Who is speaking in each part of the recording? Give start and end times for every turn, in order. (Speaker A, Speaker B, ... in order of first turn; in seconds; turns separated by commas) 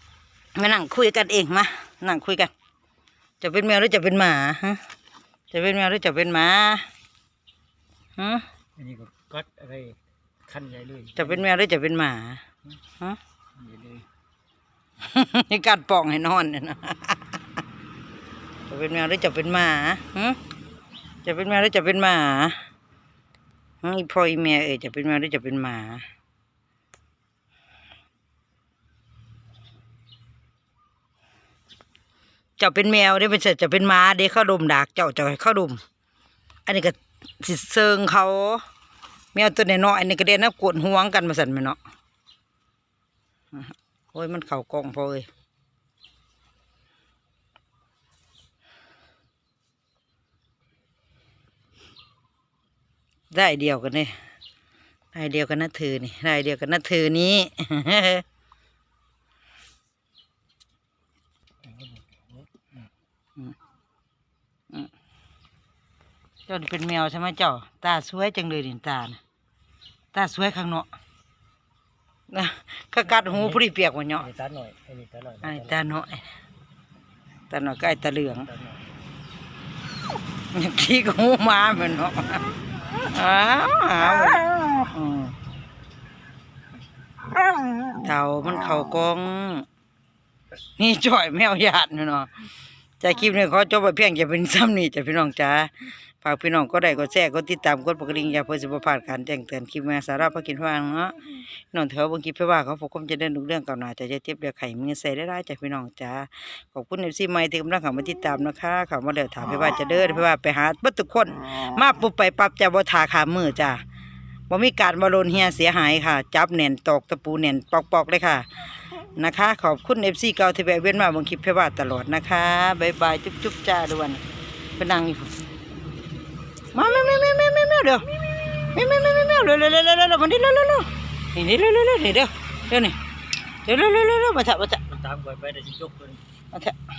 Speaker A: 0.6-2.5, Speaker A: 3.4-4.8, Speaker A: 5.5-6.8, Speaker A: 8.2-8.4, Speaker B: 8.8-11.4, Speaker A: 11.2-12.4, Speaker B: 13.6-14.1, Speaker A: 15.0-17.4, Speaker A: 18.7-20.4, Speaker A: 21.2-22.6, Speaker A: 23.8-26.0, Speaker A: 32.6-35.8, Speaker A: 36.7-38.6, Speaker A: 39.3-41.8, Speaker A: 43.5-45.3, Speaker A: 53.3-54.2, Speaker A: 55.1-58.2, Speaker B: 61.7-62.4, Speaker A: 66.5-69.2, Speaker A: 70.1-70.9, Speaker A: 72.3-74.3, Speaker B: 73.3-73.6, Speaker B: 74.2-75.8, Speaker A: 75.4-76.2, Speaker A: 77.5-78.5, Speaker B: 78.5-78.8, Speaker A: 80.5-85.3, Speaker A: 88.0-89.7, Speaker A: 90.8-92.3, Speaker A: 93.0-101.2, Speaker A: 101.7-113.8, Speaker A: 114.5-118.5, Speaker A: 119.2-124.2, Speaker A: 124.8-125.3, Speaker A: 126.7-133.0, Speaker A: 133.6-134.8, Speaker B: 134.9-136.2